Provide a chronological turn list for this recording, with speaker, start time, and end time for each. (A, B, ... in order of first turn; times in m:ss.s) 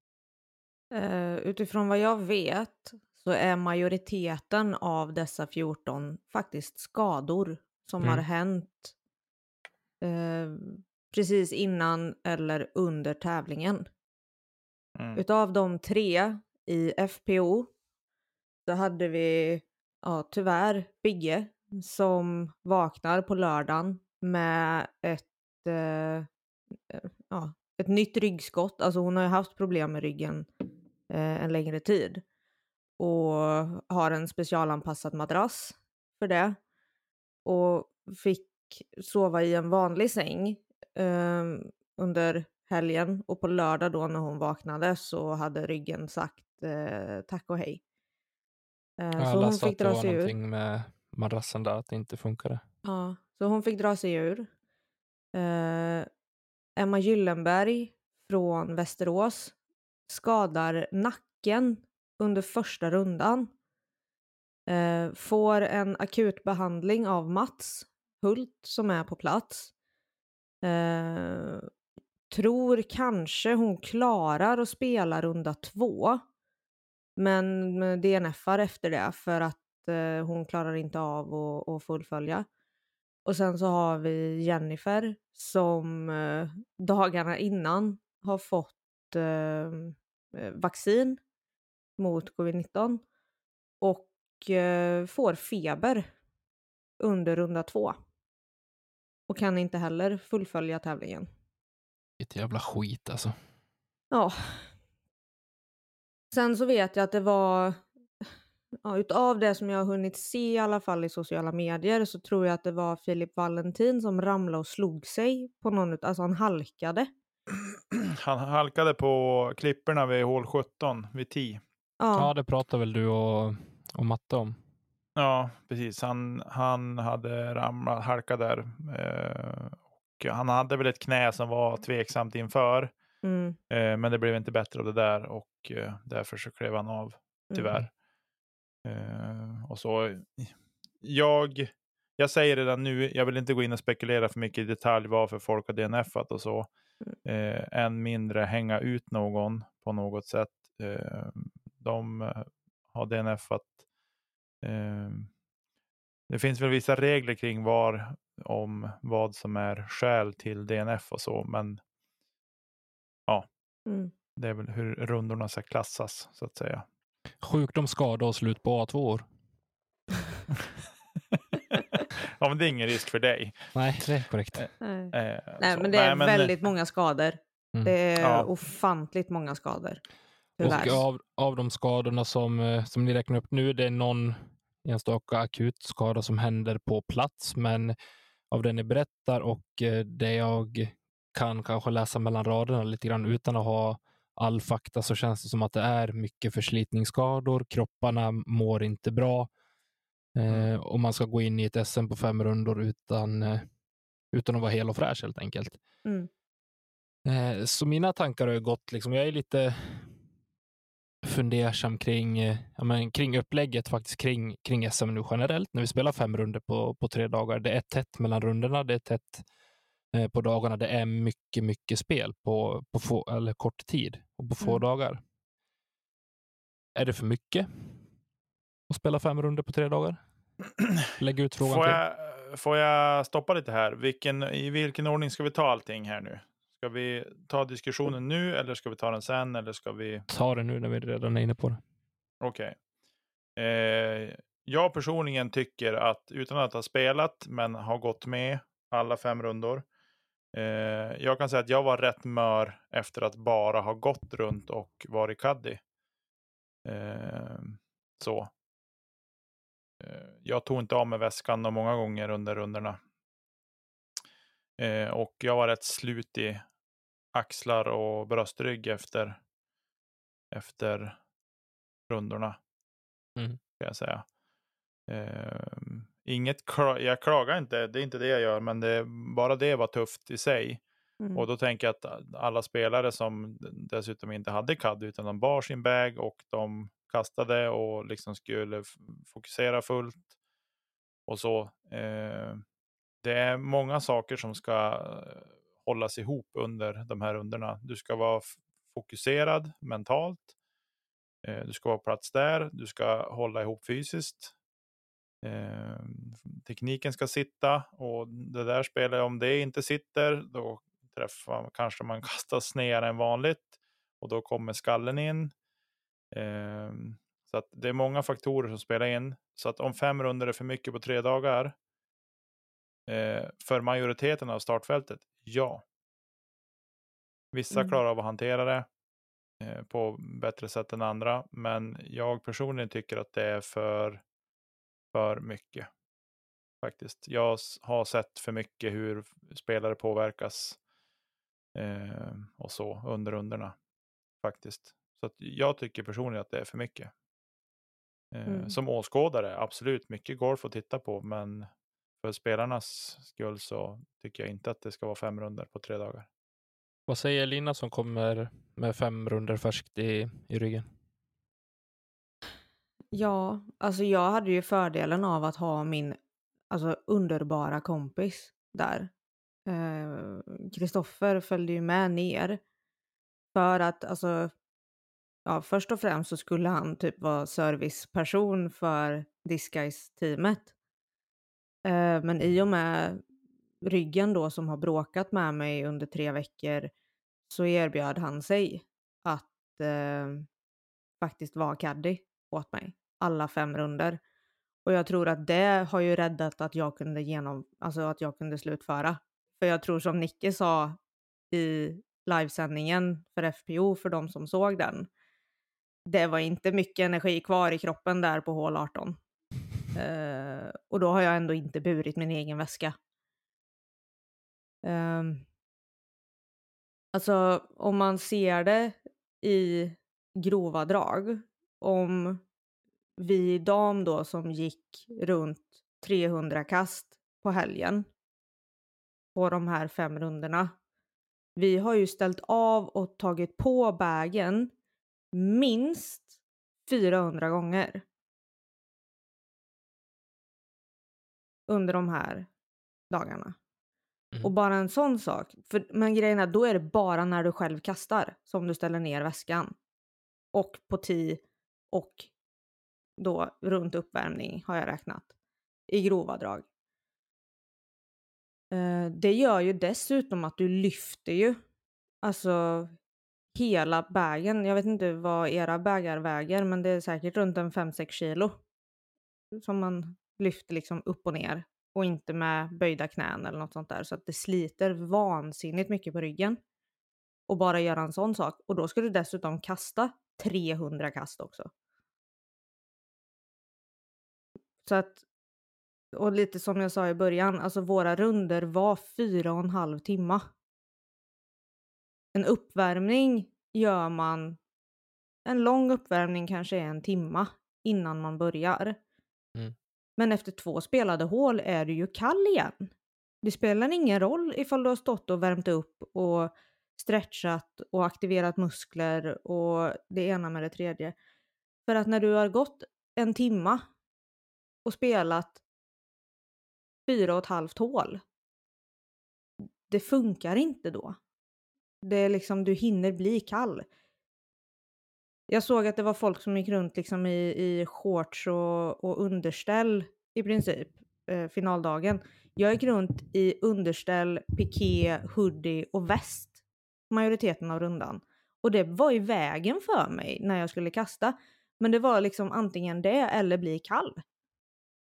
0:00.9-0:08.9 A
0:10.0-0:13.8 A
0:15.0-0:15.2 B
0:15.1-0:17.7 A
0:18.6-0:26.3 A
0:26.9-0:30.5 A
0:31.1-0:32.2 A
0:33.0-0:36.6 A
0:37.4-0:47.8 A
0:49.0-0:50.3 A
0:49.2-0:52.6 C
0:52.8-0:54.5 A
0:55.3-0:56.1 A
0:56.8-0:59.5 A
1:00.1-1:03.5 A
1:04.7-1:09.7 A
1:10.6-1:11.7 A
1:12.3-1:16.2 A
1:17.2-1:22.5 A
1:23.2-1:31.2 A
1:32.0-1:33.0 A
1:33.8-1:36.1 A
1:37.0-1:38.0 A
1:39.3-1:41.3 A
1:42.2-1:43.3 C
1:44.1-1:44.7 A
1:46.3-1:47.8 A
1:48.8-1:57.1 A
1:57.9-2:01.6 B
2:02.0-2:02.3 A
2:02.1-2:04.6 C
2:05.2-2:12.9 B
2:13.2-2:13.6 A
2:13.7-2:17.9 B
2:18.8-2:26.7 B
2:27.2-2:33.7 B
2:34.6-2:35.3 B
2:36.3-2:41.8 B
2:43.9-2:44.1 A
2:44.4-2:46.8 B
2:47.4-2:49.3 C
2:51.3-2:53.7 B
2:53.7-2:54.7 C
2:54.5-2:56.6 B
2:54.8-3:00.0 A
2:58.2-2:58.5 B
3:00.6-3:01.0 A
3:00.6-3:07.9 C
3:00.6-3:01.0 B
3:08.5-3:19.5 C
3:20.4-3:23.7 C
3:24.3-3:25.8 C
3:27.2-3:30.1 C
3:31.2-3:39.4 C
3:40.1-3:45.2 C
3:46.9-3:48.0 C
3:48.9-3:50.2 C
3:51.2-3:52.0 C
3:51.6-4:00.2 B
4:00.3-4:01.8 C
4:02.4-4:02.7 B
4:03.6-4:09.8 B
4:10.5-4:15.8 B
4:16.8-4:18.5 B
4:20.0-4:23.0 B
4:24.8-4:26.6 B
4:27.3-4:29.4 B
4:30.5-4:31.2 B
4:32.1-4:32.6 B
4:33.8-4:34.2 B
4:35.1-4:40.8 B
4:41.2-4:41.4 A
4:41.3-4:50.2 B
4:51.3-4:52.6 B
4:53.2-5:00.5 B
5:01.4-5:04.5 B
5:05.4-5:13.7 B
5:14.2-5:15.5 B
5:16.3-5:21.7 B
5:23.1-5:25.8 B
5:27.5-5:28.8 B
5:27.7-5:28.0 A
5:29.6-5:34.2 B
5:35.1-5:35.9 B
5:36.8-5:40.8 B
5:41.7-5:43.7 B
5:44.4-5:47.1 B
5:48.3-5:51.7 B
5:48.5-5:48.8 A
5:52.2-5:56.3 B
5:57.1-6:00.9 C
6:03.1-6:06.2 A
6:06.7-6:09.1 A
6:09.7-6:12.6 A
6:13.5-6:14.5 A
6:15.4-6:20.7 A
6:21.8-6:23.2 A
6:23.8-6:26.9 A
6:27.5-6:30.5 A
6:31.2-6:34.2 A
6:34.8-6:41.0 A
6:41.5-6:45.1 A
6:46.0-6:49.2 A
6:49.9-6:53.0 A
6:54.8-6:55.4 A
6:57.1-7:02.4 A
7:03.2-7:08.1 A
7:09.3-7:10.7 A
7:11.6-7:14.7 A
7:15.3-7:16.3 A
7:16.8-7:18.0 A
7:21.7-7:22.5 A
7:23.1-7:23.6 A
7:24.4-7:29.7 A
7:30.5-7:32.3 A
7:33.2-7:35.3 A
7:35.9-7:36.6 A
7:38.7-7:41.6 A
7:42.2-7:42.9 A
7:43.5-7:48.6 A
7:49.5-7:56.6 A
7:57.5-8:01.7 A
8:04.8-8:05.2 A
8:06.1-8:10.4 A
8:12.3-8:14.6 A
8:15.4-8:19.0 A
8:20.2-8:22.9 A
8:23.4-8:31.1 A
8:31.9-8:33.8 A
8:34.8-8:35.6 A
8:37.1-8:38.2 A
8:39.9-8:41.2 A
8:42.0-8:43.8 A
8:45.5-8:56.6 A
8:57.1-9:04.2 A